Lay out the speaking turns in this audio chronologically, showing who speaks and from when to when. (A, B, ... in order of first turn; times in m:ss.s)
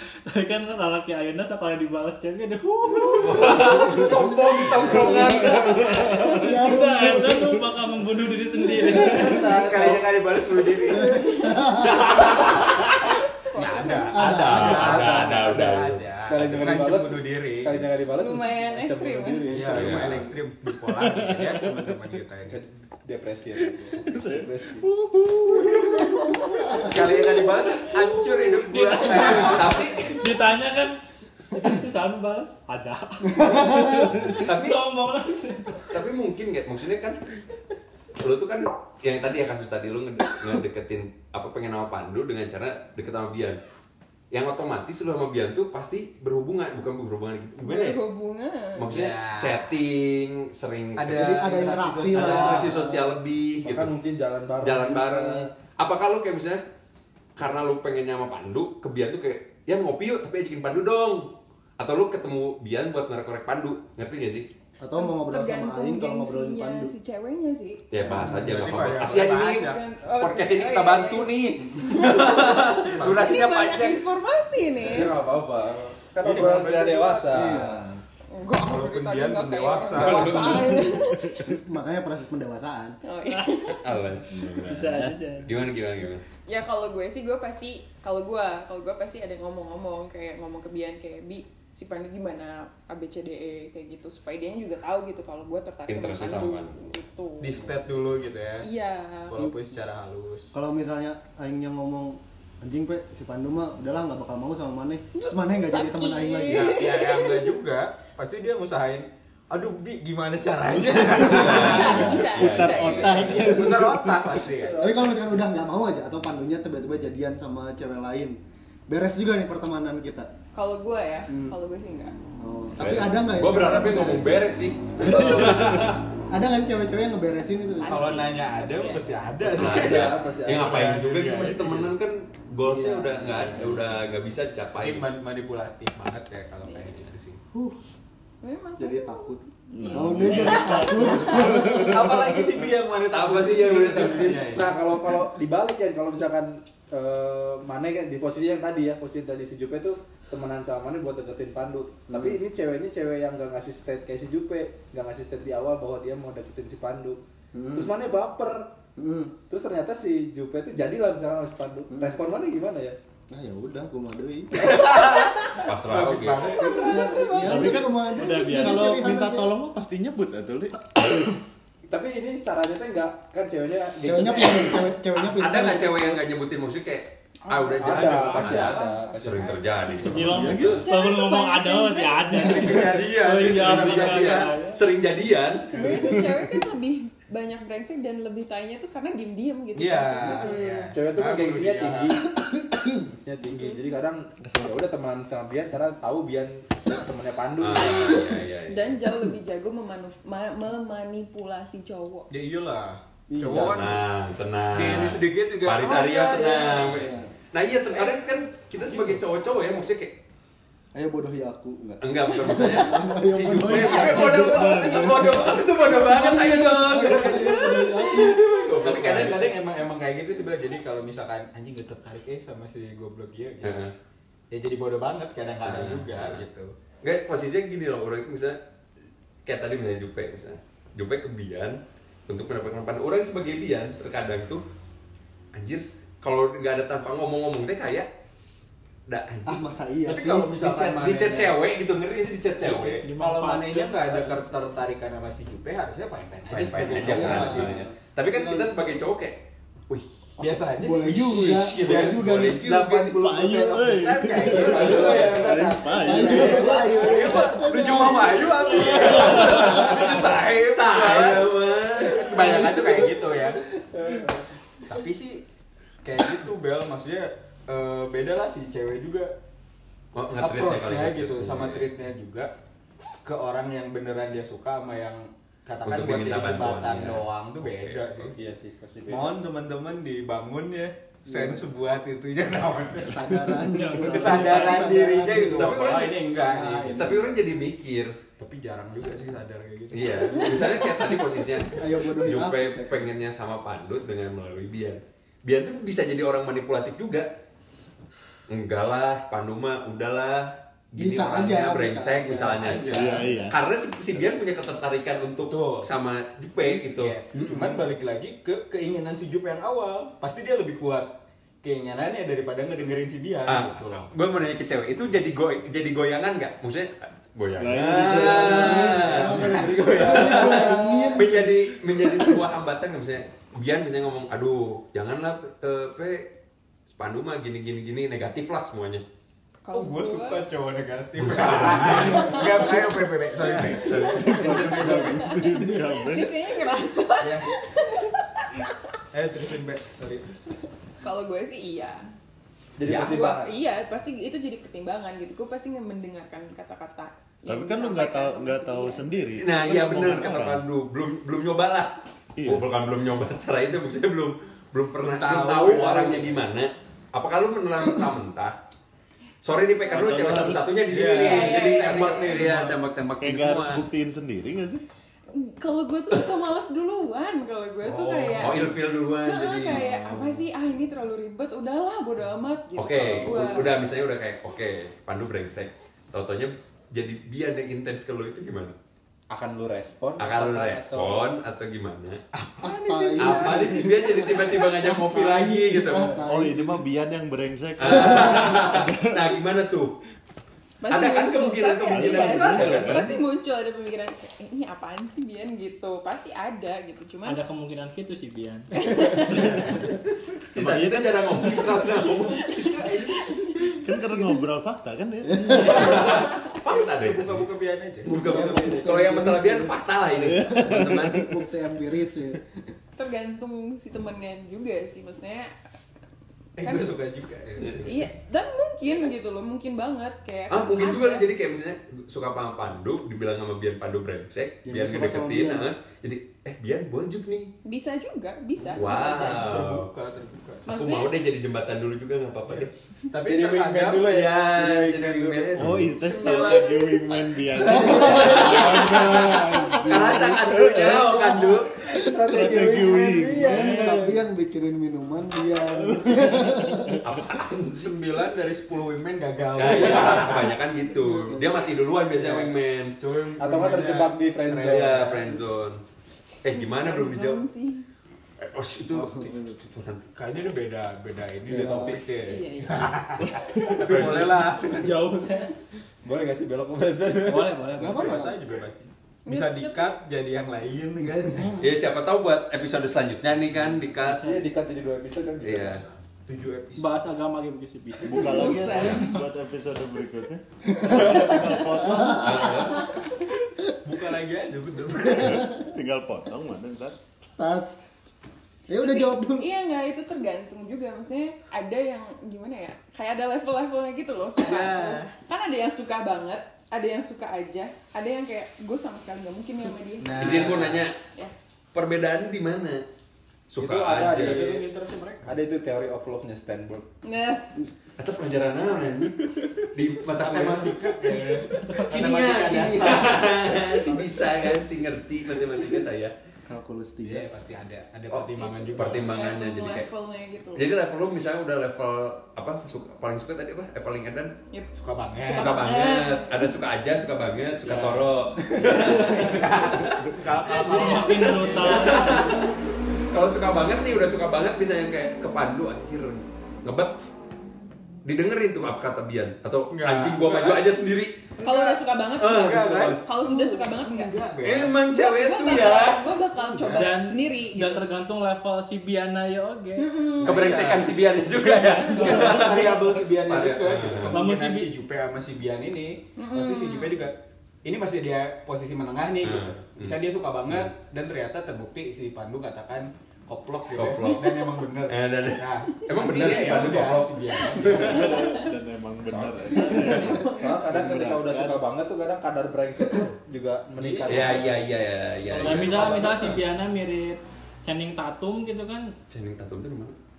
0:00.3-0:03.9 A
0:03.1-0:06.2 B
0:03.9-0:04.2 C
0:04.8-0:05.5 C
0:04.9-0:06.0 D
0:05.0-0:07.6 E
0:06.1-0:09.5 A
0:06.1-0:07.6 C
0:08.7-0:09.1 C
0:08.9-0:10.2 F
0:09.3-0:11.3 G
0:10.9-0:12.0 C
0:11.8-0:12.9 B
0:12.0-0:12.8 G
0:13.5-0:14.2 D
0:13.5-0:17.9 G
0:14.1-0:14.8 C
0:14.2-0:16.1 B
0:14.7-0:15.6 F
0:16.2-0:20.3 F
0:18.1-0:19.6 D
0:19.5-0:22.6 G
0:19.7-0:20.3 B
0:22.5-0:24.8 F
0:24.0-0:26.1 E
0:25.6-0:26.0 G
0:26.0-0:26.5 D
0:26.8-0:29.9 G
0:28.5-0:31.0 A
0:29.4-0:30.2 B
0:31.5-0:35.9 A
0:33.4-0:34.1 C
0:34.3-0:34.8 B
0:35.9-0:37.2 B
0:38.2-0:43.6 B
0:44.3-0:48.0 B
0:47.6-0:48.9 D
0:48.8-0:51.2 B
0:48.9-0:49.7 G
0:51.0-0:52.6 G
0:51.1-0:52.9 C
0:51.5-0:53.0 F
0:52.1-0:53.9 B
0:53.6-0:55.5 F
0:54.6-0:56.6 B
0:57.4-1:04.5 B
1:04.8-1:06.9 C
1:05.0-1:07.9 D
1:07.9-1:14.0 B
1:08.0-1:08.6 C
1:08.1-1:09.8 G
1:09.4-1:15.1 D
1:13.0-1:13.3 G
1:14.9-1:17.8 F
1:15.0-1:15.5 G
1:16.0-1:17.7 G
1:17.3-1:18.0 C
1:18.3-1:21.6 D
1:18.6-1:20.7 G
1:19.9-1:20.9 B
1:20.9-1:21.3 E
1:21.5-1:23.0 C
1:23.0-1:23.8 D
1:23.3-1:24.1 A
1:23.8-1:26.2 B
1:24.4-1:25.2 E
1:24.6-1:25.5 A
1:26.4-1:37.7 D
1:35.9-1:36.9 B
1:37.4-1:38.7 G
1:38.6-1:39.5 D
1:39.3-1:40.5 G
1:40.5-1:46.8 C
1:45.1-1:47.5 D
1:46.5-1:52.0 G
1:51.0-1:53.4 B
1:51.3-1:53.6 D
1:51.7-1:54.4 E
1:53.1-1:54.9 G
1:54.6-1:54.9 F
1:54.7-2:00.3 C
2:00.5-2:02.1 D
2:02.4-2:04.5 C
2:02.8-2:06.0 B
2:05.4-2:05.7 C
2:06.3-2:08.1 C
2:07.8-2:09.3 D
2:07.9-2:11.9 G
2:09.4-2:10.8 F
2:09.5-2:15.1 B
2:12.6-2:13.8 C
2:14.8-2:17.4 G
2:16.6-2:17.0 D
2:17.5-2:17.8 C
2:18.4-2:19.3 D
2:18.8-2:22.2 C
2:19.7-2:22.3 E
2:19.9-2:21.7 D
2:21.8-2:24.7 G
2:23.1-2:24.7 B
2:24.5-2:37.2 F
2:32.1-2:32.4 C
2:37.5-2:38.0 C
2:37.7-2:38.8 F
2:39.0-2:39.3 C
2:39.5-2:43.0 F
2:41.9-2:42.2 C
2:43.3-2:44.5 C
2:44.5-2:47.3 G
2:45.6-2:46.6 B
2:46.5-2:47.6 D
2:46.6-2:49.5 C
2:47.4-2:50.9 E
2:48.1-2:48.9 A
2:51.0-2:51.3 B
2:51.9-2:54.9 F
2:54.0-2:56.2 C
2:55.2-3:00.8 B
2:57.4-3:02.8 D
2:57.8-2:59.5 F
3:00.0-3:04.8 A
3:00.1-3:00.9 E
3:02.3-3:04.5 G
3:03.4-3:06.0 B
3:05.6-3:10.9 D
3:05.7-3:06.6 E
3:09.7-3:12.2 G
3:10.2-3:12.4 F
3:12.4-3:13.0 C
3:13.0-3:18.3 F
3:13.5-3:13.8 D
3:17.6-3:19.0 B
3:18.7-3:22.3 D
3:22.3-3:24.0 G
3:23.3-3:23.9 C
3:23.5-3:30.2 B
3:24.7-3:27.0 G
3:26.9-3:27.3 C
3:28.9-3:29.2 G
3:30.9-3:38.4 C
3:32.0-3:39.5 B
3:33.6-3:34.1 G
3:34.2-3:35.4 E
3:36.9-3:43.9 G
3:43.6-3:43.9 B
3:44.5-3:46.7 G
3:45.6-3:46.4 B
3:47.0-3:48.6 B
3:49.4-3:54.6 B
3:55.5-3:58.1 B
3:59.1-4:03.0 B
3:59.4-4:00.5 C
4:00.0-4:01.6 G
4:02.6-4:07.9 G
4:02.9-4:04.1 A
4:06.5-4:10.1 B
4:07.0-4:08.8 C
4:10.4-4:23.6 G
4:10.5-4:12.6 C
4:11.2-4:13.3 B
4:13.2-4:17.0 E
4:14.6-4:17.6 F
4:14.6-4:15.3 B
4:16.0-4:18.9 C
4:18.8-4:22.8 B
4:18.9-4:19.9 E
4:22.3-4:23.0 C
4:23.9-4:24.4 F
4:24.8-4:25.4 G
4:26.0-4:29.3 G
4:30.1-4:31.9 B
4:30.3-4:32.5 G
4:33.2-4:38.4 G
4:35.8-4:38.1 B
4:38.2-4:39.4 F
4:39.1-4:43.5 G
4:41.3-4:41.6 C
4:43.0-4:45.7 C
4:43.6-4:44.8 A
4:44.0-4:47.2 G
4:45.5-4:46.3 B
4:46.5-4:47.3 C
4:46.8-4:48.2 B
4:48.4-4:50.7 G
4:49.9-4:57.3 B
4:51.8-4:53.1 C
4:58.5-5:07.2 B
5:01.0-5:03.2 C
5:02.8-5:03.6 E
5:05.5-5:05.9 G
5:06.6-5:14.1 G
5:07.4-5:07.7 C
5:13.4-5:26.3 B
5:17.6-5:19.0 E
5:18.0-5:20.8 G
5:18.2-5:22.4 C
5:26.9-5:29.0 B
5:29.6-5:30.4 D
5:29.7-5:35.0 G
5:31.2-5:32.5 B
5:32.1-5:32.8 D
5:33.6-5:36.4 E
5:33.8-5:38.5 D
5:37.2-5:37.5 G
5:39.1-5:40.2 G
5:41.0-5:42.0 D
5:42.8-5:43.5 F
5:42.8-5:43.2 B
5:42.9-5:49.1 D
5:47.4-5:50.6 E
5:49.4-5:58.5 B
5:52.4-5:52.7 E
5:55.0-5:56.4 G
5:59.4-6:03.8 B
5:59.9-6:00.7 E
6:00.8-6:02.8 G
6:01.1-6:02.4 D
6:03.2-6:04.8 E
6:05.3-6:08.7 D
6:07.8-6:08.7 G
6:08.4-6:10.4 B
6:09.2-6:13.8 D
6:12.8-6:18.8 B
6:19.3-6:21.2 F
6:20.2-6:22.2 B
6:22.4-6:23.8 G
6:22.6-6:26.8 C
6:23.2-6:26.2 B
6:26.2-6:29.3 E
6:27.8-6:29.9 B
6:28.1-6:28.8 C
6:30.8-6:37.4 D
6:30.9-6:33.2 B
6:31.9-6:33.1 E
6:37.2-6:39.8 A
6:38.8-6:39.6 D
6:39.4-6:39.7 E
6:40.5-6:42.9 B
6:40.6-6:41.0 E
6:42.2-6:44.4 D
6:42.6-6:43.1 G
6:43.7-6:45.6 E
6:45.2-6:45.7 C
6:45.6-6:47.5 B
6:45.6-6:48.6 G
6:48.0-6:51.3 B
6:48.1-6:52.4 C
6:50.5-6:51.0 E
6:53.0-6:55.5 D
6:56.6-6:57.9 G
6:56.6-6:56.9 D
6:57.6-6:57.8 B
6:57.8-7:01.2 D
7:00.5-7:07.5 B
7:04.6-7:05.7 C
7:07.6-7:09.5 D
7:08.7-7:09.9 B
7:08.9-7:10.6 G
7:10.6-7:11.1 D
7:10.7-7:12.7 B
7:12.5-7:18.9 G
7:13.2-7:15.8 F
7:14.1-7:15.9 B
7:15.6-7:21.2 E
7:16.1-7:16.7 D
7:17.5-7:18.4 F
7:17.7-7:18.5 C
7:18.0-7:21.8 B
7:20.0-7:22.2 C
7:22.0-7:24.2 F
7:22.1-7:24.0 E
7:23.4-7:27.0 C
7:25.8-7:27.1 E
7:27.0-7:27.9 B
7:27.3-7:30.5 G
7:29.6-7:32.9 B
7:30.7-7:31.4 C
7:32.2-7:32.5 F
7:33.0-7:35.1 G
7:33.4-7:35.2 F
7:34.6-7:35.8 B
7:36.4-7:37.4 B
7:36.5-7:37.8 D
7:38.4-7:40.0 B
7:38.9-7:39.5 C
7:40.1-7:45.0 G
7:41.5-7:42.0 C
7:41.5-7:42.0 F
7:42.3-7:42.9 D
7:43.7-7:44.6 B
7:44.6-7:45.5 A
7:46.0-7:48.2 F
7:47.2-7:48.2 A
7:47.7-7:51.6 G
7:47.8-7:48.3 C
7:49.2-7:50.0 D
7:51.3-7:51.6 A
7:51.6-7:54.2 B
7:53.9-7:55.9 F
7:54.0-7:54.4 A
7:55.4-7:55.8 B
7:56.2-7:57.0 G
7:56.8-7:59.2 A
7:58.0-8:02.5 E
7:58.1-7:59.2 D
8:00.8-8:02.8 C
8:01.1-8:01.4 D
8:02.1-8:02.9 B
8:03.8-8:05.4 G
8:05.2-8:05.7 C
8:05.2-8:07.0 E
8:07.4-8:07.9 C
8:08.7-8:09.4 C
8:09.1-8:20.6 D
8:14.4-8:15.1 G
8:20.0-8:20.8 G
8:20.2-8:21.0 B
8:21.7-8:22.8 B
8:23.5-8:24.6 B
8:23.6-8:24.7 F
8:23.7-8:25.3 G
8:25.2-8:26.9 F
8:27.0-8:27.6 D
8:28.0-8:29.1 B
8:29.7-8:30.9 B
8:30.2-8:33.9 G
8:31.9-8:36.1 B
8:31.9-8:32.6 F
8:36.5-8:37.3 C
8:37.0-8:39.2 G
8:38.1-8:39.9 B
8:38.4-8:40.7 D
8:40.6-8:44.3 B
8:44.5-8:46.5 D
8:44.8-8:45.5 G
8:45.3-8:49.9 B
8:47.6-8:52.5 G
8:48.7-8:49.4 D
8:50.6-8:52.5 B
8:50.7-8:52.2 A
8:53.1-8:56.9 B
8:58.0-9:01.3 B
8:59.7-9:00.7 G
9:01.4-9:01.8 G
9:01.4-9:04.1 D
9:02.2-9:03.0 B
9:02.3-9:04.7 G
9:04.4-9:06.9 B
9:04.9-9:07.8 D
9:06.7-9:10.0 A
9:09.8-9:10.5 D
9:10.2-9:28.2 G
9:10.2-9:14.3 B
9:14.1-9:14.7 A
9:16.2-9:17.0 D
9:19.2-9:20.7 B
9:23.7-9:28.1 B
9:27.7-9:31.7 E
9:27.8-9:28.4 D
9:29.1-9:30.1 G
9:29.8-9:30.1 B
9:29.8-9:30.5 D
9:30.2-9:36.4 F
9:33.8-9:34.5 G
9:34.1-9:36.4 B
9:35.3-9:38.9 A
9:35.4-9:36.1 G
9:39.1-9:40.0 B